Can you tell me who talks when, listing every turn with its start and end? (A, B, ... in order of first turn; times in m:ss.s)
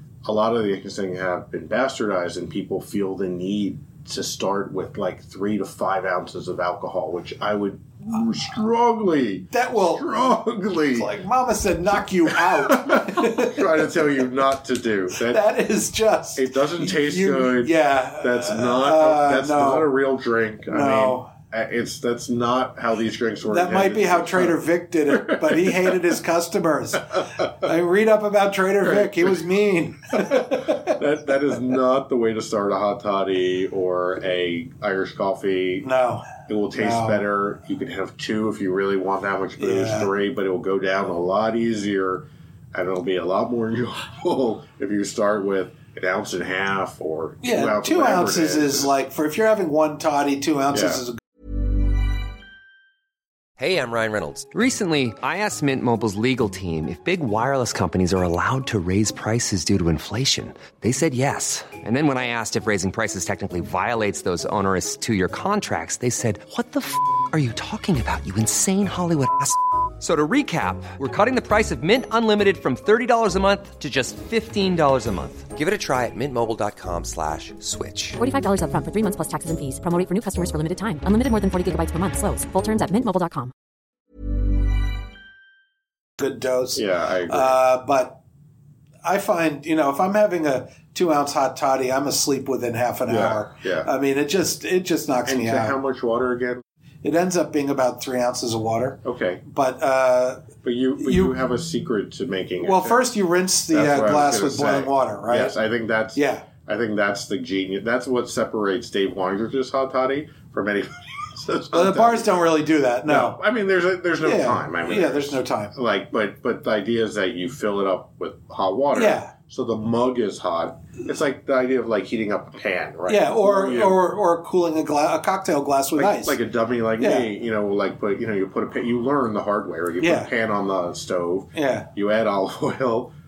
0:00.2-0:11.1 A
0:09.5-0:10.1 B
0:10.9-0:13.9 B
0:12.3-0:15.5 A
0:15.2-0:19.9 B
0:16.4-0:26.0 A
0:20.7-0:21.3 B
0:23.5-0:31.0 B
0:28.8-0:29.4 A
0:30.1-0:35.9 A
0:35.8-0:37.2 B
0:36.4-0:49.0 A
0:39.6-0:40.1 B
0:47.4-0:51.2 B
0:50.7-0:51.0 A
0:53.6-1:18.2 C
1:18.2-1:23.5 D
1:26.2-1:28.2 B
1:26.8-1:27.6 A
1:29.0-1:35.8 B
1:33.1-1:33.9 A
1:35.3-1:36.6 A
1:37.0-1:41.4 B
1:39.0-1:39.4 A
1:40.6-1:43.0 A
1:42.6-1:45.6 B
1:43.7-1:52.4 A
1:46.2-1:46.5 B
1:51.7-1:53.4 B
1:53.1-2:04.0 A
1:54.2-1:55.7 B
1:58.9-1:59.3 B
2:03.1-2:06.4 B
2:06.0-2:13.1 A
2:07.0-2:07.3 B
2:10.0-2:10.3 B
2:11.6-2:11.9 B